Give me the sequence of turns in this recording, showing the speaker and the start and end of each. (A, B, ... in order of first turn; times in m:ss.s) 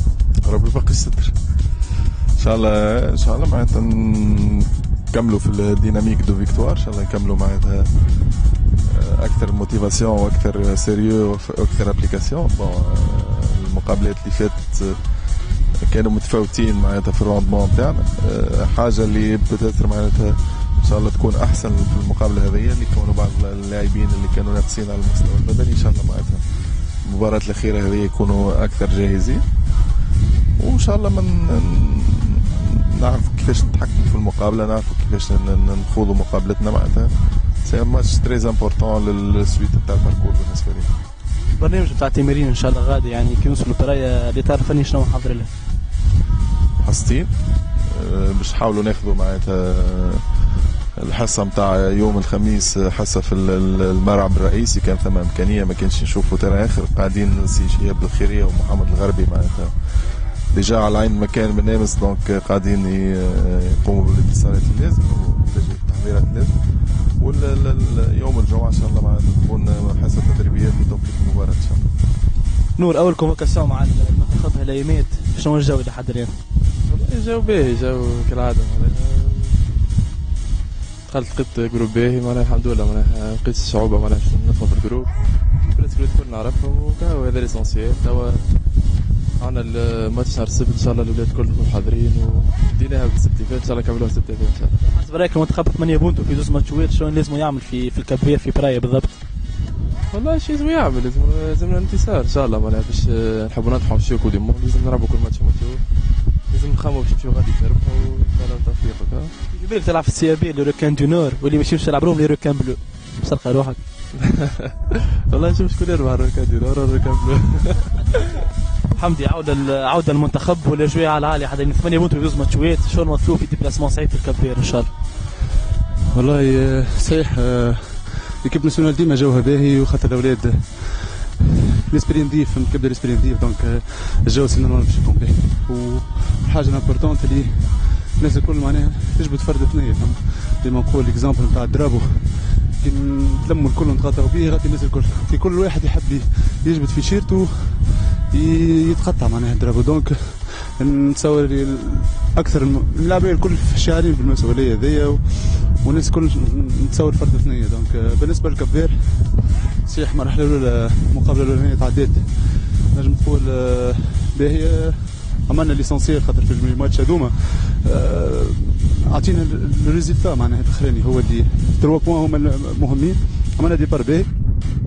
0:00.4-0:01.3 A
0:02.4-0:07.9 A
0:08.8-0:15.0 A
0:15.8-0:26.4 A
0:27.0-0:29.4 A
0:30.6-0:40.9 A
0:41.6-0:45.5 B
0:46.8-0:47.3 A
0:47.8-0:50.4 A
0:51.0-1:11.9 A
1:12.8-1:16.4 B
1:16.9-1:19.6 C
1:21.1-1:25.1 C
1:25.7-1:28.5 C
1:29.4-1:34.8 C
1:34.8-1:39.2 B
1:40.1-1:45.8 C
1:46.5-1:49.3 C
1:49.5-1:53.8 B
1:54.2-1:58.2 C
1:58.9-2:04.9 B
2:06.1-2:54.3 D